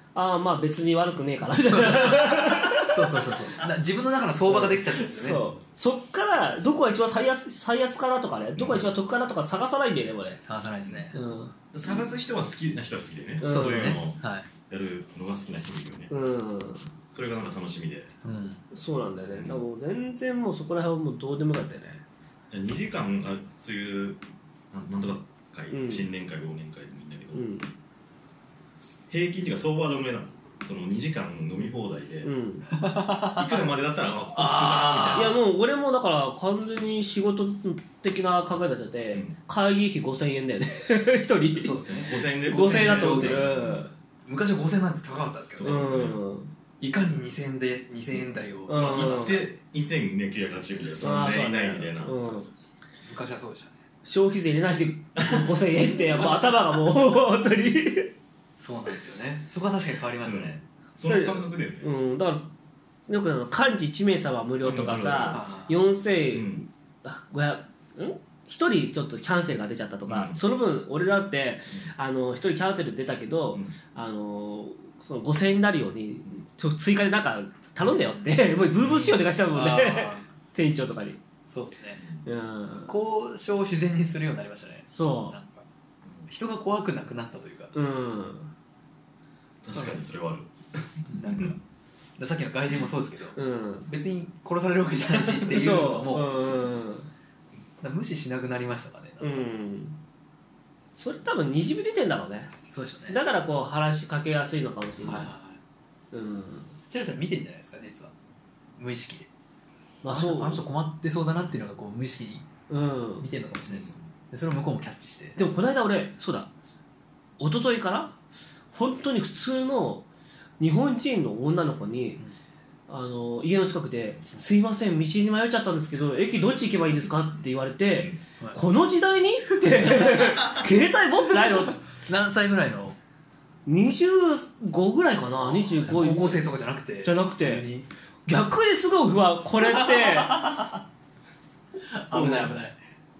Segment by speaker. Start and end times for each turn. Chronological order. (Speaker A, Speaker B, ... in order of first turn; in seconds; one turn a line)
Speaker A: 0.1-3.2
Speaker B: 1.7-5.4
Speaker A: 4.5-10.4
Speaker C: 8.6-8.8
Speaker B: 10.4-11.2
Speaker C: 10.8-11.1
Speaker A: 11.1-11.5
Speaker C: 11.7-14.2
Speaker A: 13.4-14.0
Speaker B: 13.5-14.5
Speaker C: 14.7-16.1
Speaker A: 16.1-16.8
Speaker C: 17.1-18.1
Speaker B: 18.2-18.6
Speaker A: 18.7-22.0
Speaker C: 19.3-19.6
Speaker C: 22.5-27.4
Speaker A: 25.7-26.1
Speaker A: 27.3-27.7
Speaker C: 29.0-32.3
Speaker A: 32.2-32.7
Speaker B: 32.8-33.6
Speaker C: 33.3-35.4
Speaker B: 34.3-35.4
Speaker A: 35.1-41.8
Speaker B: 41.6-43.5
Speaker C: 41.8-43.9
Speaker A: 42.5-43.9
Speaker B: 44.2-45.9
Speaker C: 45.6-46.2
Speaker A: 45.6-46.5
Speaker B: 46.8-49.4
Speaker A: 48.7-49.4
Speaker C: 48.8-52.5
Speaker A: 51.0-52.5
Speaker B: 51.0-51.3
Speaker B: 53.0-53.8
Speaker A: 54.0-58.1
Speaker C: 55.2-55.6
Speaker B: 58.6-60.6
Speaker C: 60.2-61.9
Speaker A: 61.1-62.5
Speaker A: 63.1-81.2
Speaker C: 64.6-65.5
Speaker B: 65.3-65.7
Speaker C: 66.3-66.7
Speaker C: 70.1-70.4
Speaker B: 77.9-78.4
Speaker C: 78.8-79.1
Speaker B: 79.5-80.2
Speaker B: 81.5-82.0
Speaker C: 82.0-82.2
Speaker A: 82.2-82.9
Speaker B: 82.9-85.6
Speaker A: 84.9-85.4
Speaker B: 86.3-87.7
Speaker A: 87.7-88.5
Speaker C: 89.6-91.5
Speaker B: 91.1-91.6
Speaker B: 92.2-96.3
Speaker A: 93.3-93.9
Speaker A: 95.5-97.1
Speaker B: 97.8-99.4
Speaker A: 99.2-100.0
Speaker A: 100.9-102.5
Speaker B: 102.7-103.2
Speaker A: 103.1-105.3
Speaker B: 105.0-105.6
Speaker A: 106.1-106.8
Speaker B: 106.9-108.1
Speaker B: 108.8-109.3
Speaker A: 110.0-110.6
Speaker B: 110.1-112.5
Speaker A: 112.7-113.3
Speaker B: 113.2-115.4
Speaker C: 113.7-114.0
Speaker A: 115.3-116.5
Speaker A: 117.4-118.2
Speaker A: 118.7-120.1
Speaker A: 120.6-122.2
Speaker A: 122.9-131.8
Speaker B: 129.6-130.3
Speaker B: 131.4-133.0
Speaker A: 133.7-136.4
Speaker B: 135.4-137.9
Speaker A: 137.0-137.6
Speaker A: 138.3-140.5
Speaker B: 139.6-140.8
Speaker B: 141.9-142.8
Speaker A: 142.1-142.5